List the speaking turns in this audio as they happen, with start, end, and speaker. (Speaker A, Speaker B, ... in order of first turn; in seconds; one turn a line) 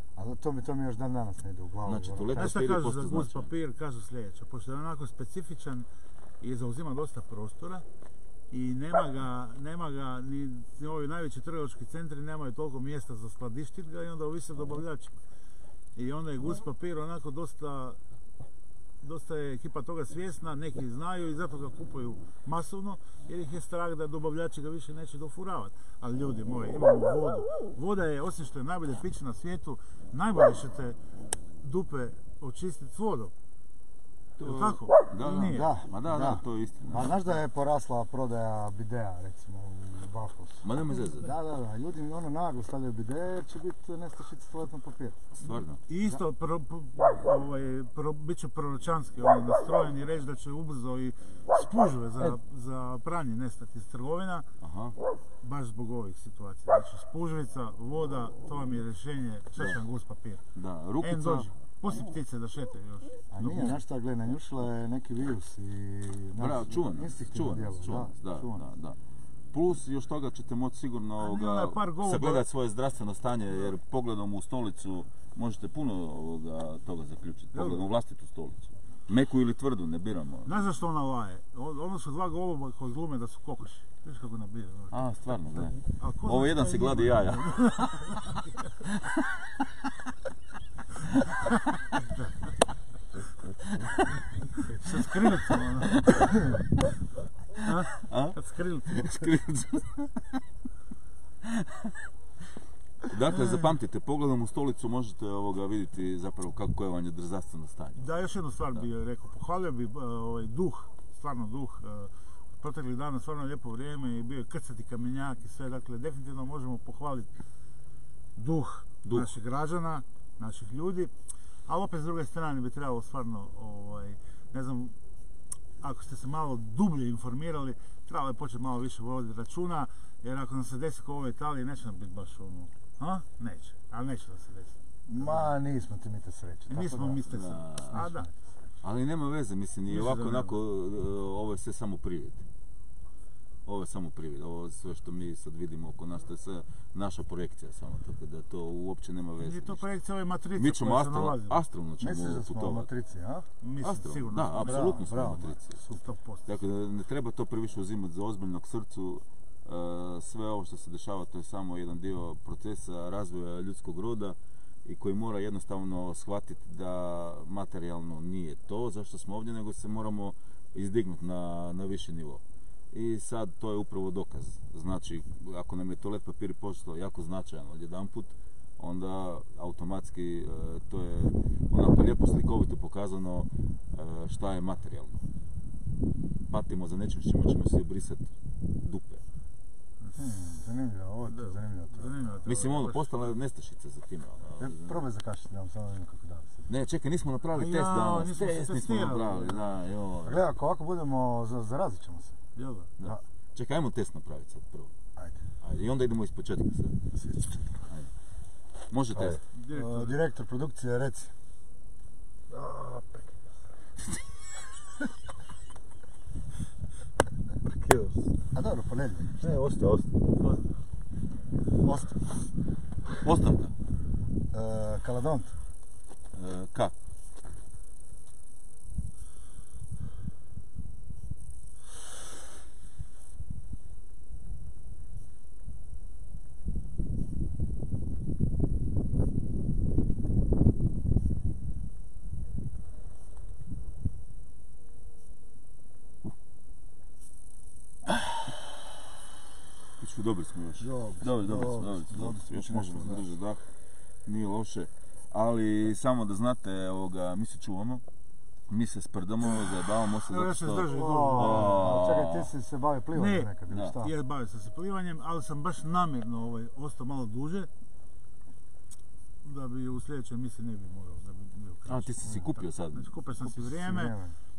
Speaker A: 0.1-2.6
Speaker B: 1.8-3.5
Speaker C: 2.3-5.9
Speaker C: 6.4-7.8
Speaker C: 8.5-15.2
Speaker C: 15.9-18.0
Speaker C: 19.0-31.0
Speaker C: 31.6-33.3
Speaker B: 34.4-37.2
Speaker C: 34.4-35.8
Speaker A: 35.5-45.3
Speaker B: 40.6-41.3
Speaker B: 45.4-45.8
Speaker C: 45.9-54.5
Speaker B: 54.6-55.0
Speaker C: 55.4-60.4
Speaker B: 60.5-61.5
Speaker C: 61.0-63.8
Speaker A: 63.3-68.6
Speaker B: 66.4-69.0
Speaker B: 69.5-80.5
Speaker C: 71.2-72.4
Speaker C: 77.5-77.8
Speaker C: 80.4-85.0
Speaker B: 84.9-88.3
Speaker C: 85.8-88.5
Speaker B: 88.8-89.6
Speaker C: 91.9-92.3
Speaker B: 93.7-94.2
Speaker C: 94.6-96.3
Speaker B: 94.9-96.4
Speaker C: 97.6-99.2
Speaker B: 98.0-100.4
Speaker B: 101.4-101.9
Speaker B: 103.0-108.0
Speaker C: 108.0-117.3
Speaker C: 118.3-121.1
Speaker B: 119.0-119.3
Speaker C: 121.7-124.9
Speaker C: 125.8-135.5
Speaker A: 135.1-137.2
Speaker C: 136.7-138.3
Speaker B: 137.3-138.1
Speaker A: 137.9-138.3
Speaker B: 138.8-142.4
Speaker C: 139.9-140.6
Speaker B: 143.7-149.8
Speaker C: 149.4-151.6
Speaker B: 150.5-152.9
Speaker A: 152.0-153.4
Speaker C: 153.6-155.1
Speaker B: 153.8-155.8
Speaker A: 154.6-155.6
Speaker C: 155.9-156.5
Speaker B: 156.5-185.2
Speaker B: 186.5-189.2
Speaker C: 190.0-190.3
Speaker A: 190.2-192.1
Speaker C: 191.3-193.3
Speaker B: 192.4-195.0
Speaker A: 194.6-196.7
Speaker B: 196.7-200.4
Speaker C: 197.5-199.6
Speaker A: 200.2-202.4
Speaker C: 202.6-202.9
Speaker B: 203.0-204.9
Speaker B: 205.6-207.0
Speaker A: 207.1-207.7
Speaker B: 208.9-209.4
Speaker C: 209.5-210.2
Speaker A: 209.7-211.3
Speaker D: 212.5-213.4
Speaker D: 217.6-218.3
Speaker A: 218.5-219.6
Speaker D: 219.4-220.3
Speaker C: 220.4-220.7
Speaker A: 221.8-222.2
Speaker B: 223.2-223.7
Speaker A: 224.5-225.6
Speaker B: 226.3-226.9
Speaker B: 250.0-253.6
Speaker A: 250.8-253.3
Speaker B: 254.2-258.0
Speaker B: 258.7-262.5
Speaker C: 260.3-261.9
Speaker A: 260.9-264.1
Speaker C: 263.1-267.7
Speaker B: 263.7-263.9
Speaker C: 269.4-274.1
Speaker B: 271.9-273.1
Speaker A: 273.4-274.3